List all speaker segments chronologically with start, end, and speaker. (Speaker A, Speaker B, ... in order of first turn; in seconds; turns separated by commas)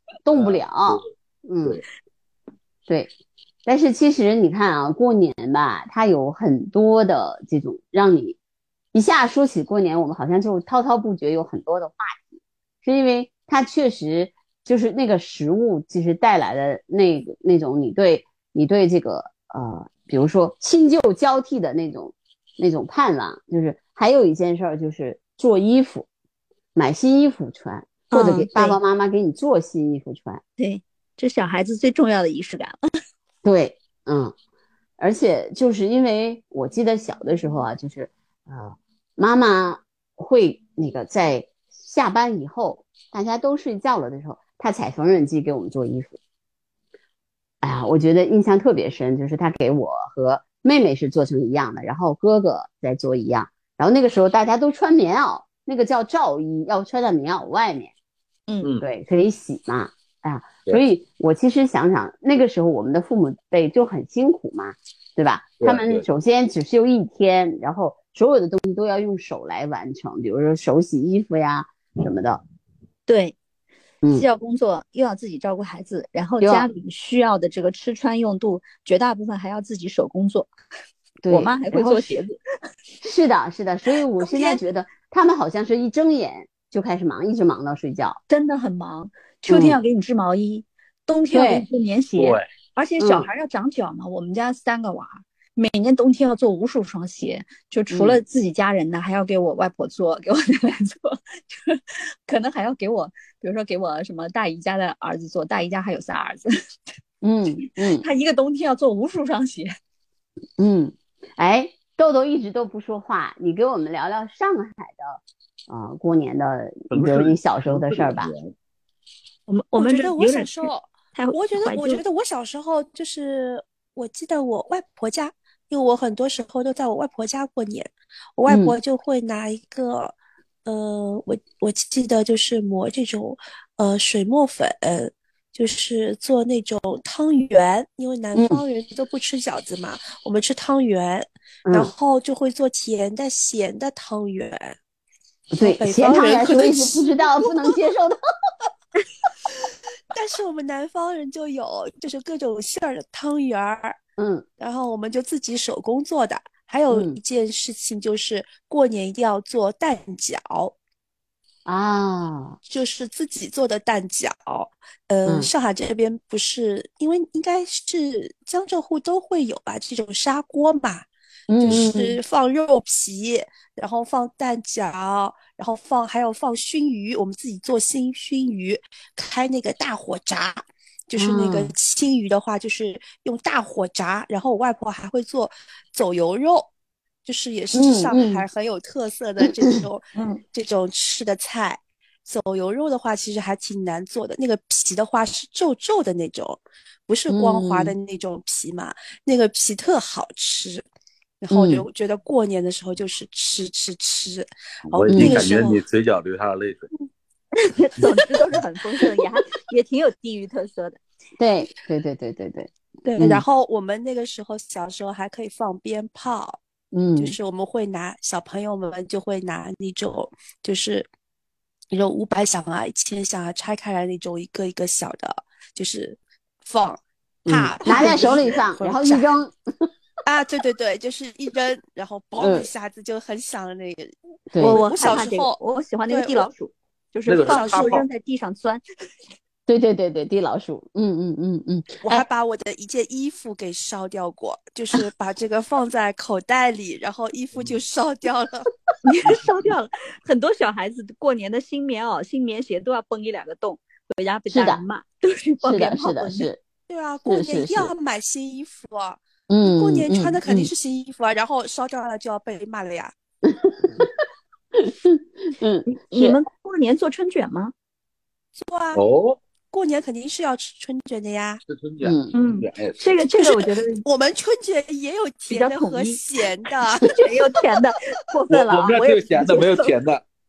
Speaker A: 0.3-1.8, Speaker B: 0.3-1.1, Speaker A: 3.7-8.4, Speaker A: 8.9-12.3, Speaker A: 12.8-26.1, Speaker A: 26.8-30.4, Speaker C: 28.1-28.8, Speaker C: 30.6-32.8, Speaker A: 33.4-34.3, Speaker A: 35.0-46.2, Speaker A: 47.6-57.9, Speaker A: 58.8-72.4, Speaker B: 65.6-66.0, Speaker C: 73.1-73.3, Speaker C: 74.1-80.5, Speaker A: 76.4-76.7, Speaker A: 81.2-82.2, Speaker C: 81.3-82.3, Speaker A: 83.0-88.2, Speaker C: 84.2-84.6, Speaker C: 88.3-106.5, Speaker A: 89.5-89.8, Speaker A: 91.3-91.7, Speaker B: 92.2-92.5, Speaker A: 93.0-93.3, Speaker A: 97.9-98.2, Speaker A: 107.2-108.0, Speaker C: 107.9-109.7, Speaker A: 110.6-118.3, Speaker B: 116.9-118.5, Speaker C: 119.5-122.0, Speaker D: 119.8-144.8, Speaker A: 128.5-128.8, Speaker A: 138.3-138.6, Speaker A: 141.7-141.9, Speaker A: 145.5-148.2, Speaker D: 145.6-147.8, Speaker D: 150.1-154.0, Speaker A: 154.2-154.4, Speaker D: 154.6-160.8, Speaker A: 156.9-157.2, Speaker A: 161.7-162.6, Speaker D: 162.7-171.1, Speaker A: 171.5-172.2, Speaker D: 171.6-186.7, Speaker A: 181.2-181.7, Speaker D: 187.2-200.9, Speaker A: 187.7-188.5, Speaker C: 190.2-190.4, Speaker A: 197.3-197.9, Speaker D: 201.4-205.8, Speaker A: 201.5-201.9, Speaker B: 204.9-206.9, Speaker A: 205.1-205.4, Speaker C: 207.6-211.0, Speaker A: 211.4-213.4, Speaker D: 213.0-216.6, Speaker A: 216.9-217.4, Speaker D: 217.2-221.1, Speaker D: 221.9-229.3, Speaker A: 227.5-229.9, Speaker D: 230.2-235.6, Speaker A: 232.4-232.7, Speaker A: 234.5-234.8, Speaker C: 234.6-238.8, Speaker D: 236.1-236.5, Speaker B: 237.3-238.1, Speaker D: 237.4-238.0, Speaker A: 239.7-242.2, Speaker D: 242.0-248.7, Speaker C: 249.1-256.5, Speaker A: 254.5-254.8, Speaker A: 255.6-256.6, Speaker D: 256.9-263.1, Speaker A: 257.2-257.9, Speaker A: 259.5-260.7, Speaker A: 263.4-264.1, Speaker A: 264.8-266.4, Speaker C: 265.9-267.7, Speaker D: 268.6-269.0, Speaker B: 268.9-269.4, Speaker D: 269.7-271.6, Speaker B: 271.7-273.2, Speaker A: 272.0-272.3, Speaker C: 272.3-274.0, Speaker D: 273.4-277.6, Speaker C: 275.5-276.2, Speaker C: 277.0-279.9, Speaker B: 278.5-280.2